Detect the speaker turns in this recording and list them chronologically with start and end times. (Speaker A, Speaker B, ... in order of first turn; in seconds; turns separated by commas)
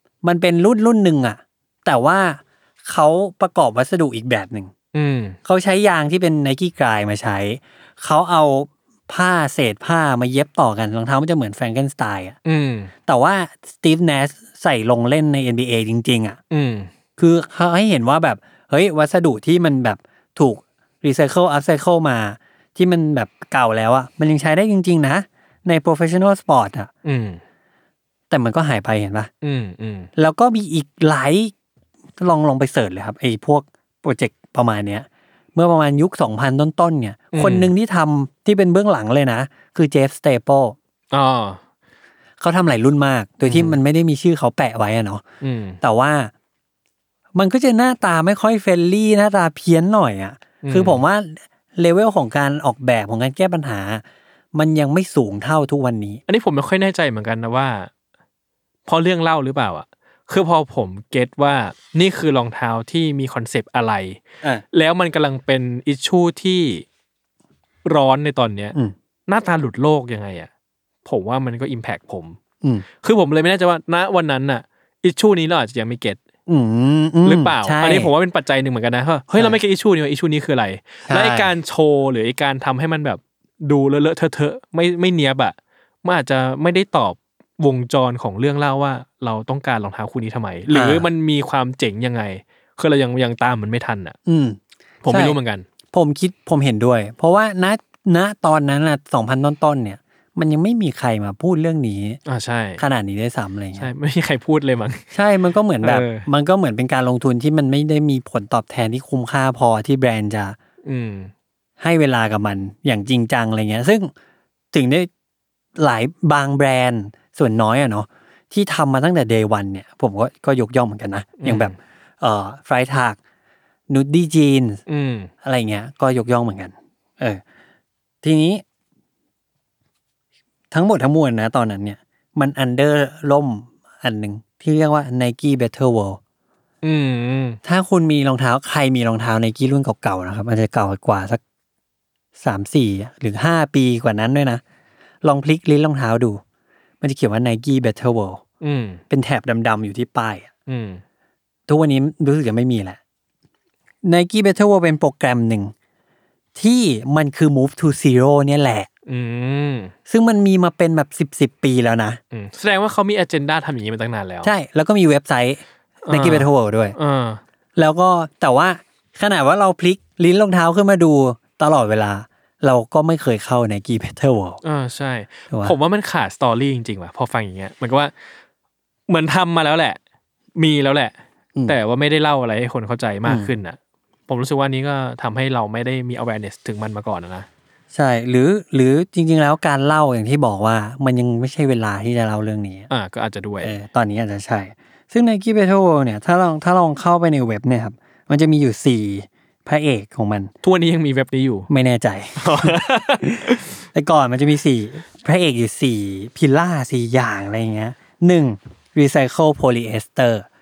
Speaker A: 0.2-4.7, Speaker B: 4.9-5.4, Speaker A: 5.5-12.4, Speaker B: 12.4-12.9, Speaker A: 13.1-16.4, Speaker B: 16.5-16.9, Speaker A: 17.2-26.9, Speaker B: 27.1-27.4, Speaker A: 28.3-29.3, Speaker B: 29.4-30.1, Speaker A: 30.2-31.5, Speaker A: 32.2-40.8, Speaker B: 37.3-37.7, Speaker B: 41.1-41.6, Speaker A: 42.4-45.2, Speaker B: 43.5-43.8, Speaker B: 45.4-45.8, Speaker A: 45.8-46.3, Speaker A: 47.4-56.2, Speaker B: 50.6-51.0, Speaker B: 56.3-57.9, Speaker B: 58.9-66.8, Speaker B: 67.8-68.8, Speaker B: 69.3-70.5, Speaker B: 71.0-72.4, Speaker B: 73.0-76.2, Speaker A: 76.5-78.1, Speaker B: 77.2-94.2, Speaker A: 81.1-81.5, Speaker A: 90.7-91.1, Speaker A: 94.3-95.4, Speaker B: 95.0-95.7, Speaker A: 95.9-102.2, Speaker B: 102.3-102.8, Speaker A: 102.8-103.9, Speaker B: 103.8-105.0, Speaker A: 105.1-110.6, Speaker B: 105.8-106.3, Speaker B: 110.8-111.3, Speaker A: 111.8-114.1, Speaker A: 114.7-115.1, Speaker A: 115.8-123.2, Speaker B: 121.4-121.8, Speaker A: 123.9-124.8, Speaker B: 124.9-125.3, Speaker A: 125.4-127.4, Speaker A: 128.2-128.6, Speaker A: 130.7-136.2, Speaker B: 136.8-137.6, Speaker A: 137.6-141.4, Speaker A: 142.4-144.6, Speaker A: 145.2-146.4, Speaker A: 147.0-148.4, Speaker B: 148.6-149.0, Speaker A: 149.1-150.5, Speaker B: 150.7-151.0, Speaker A: 151.7-153.0, Speaker A: 154.0-155.7, Speaker A: 156.6-158.9, Speaker B: 159.1-159.9, Speaker A: 160.1-162.2, Speaker B: 162.3-164.5, Speaker A: 164.4-166.9, Speaker B: 166.1-167.4, Speaker A: 167.8-174.6, Speaker B: 174.6-178.1, Speaker B: 179.1-180.0, Speaker B: 180.6-181.2, Speaker B: 181.7-183.8, Speaker B: 184.3-187.5, Speaker A: 187.9-192.9, Speaker B: 192.9-193.8, Speaker A: 193.6-200.5, Speaker B: 200.6-201.7, Speaker A: 201.7-210.5, Speaker B: 202.4-203.8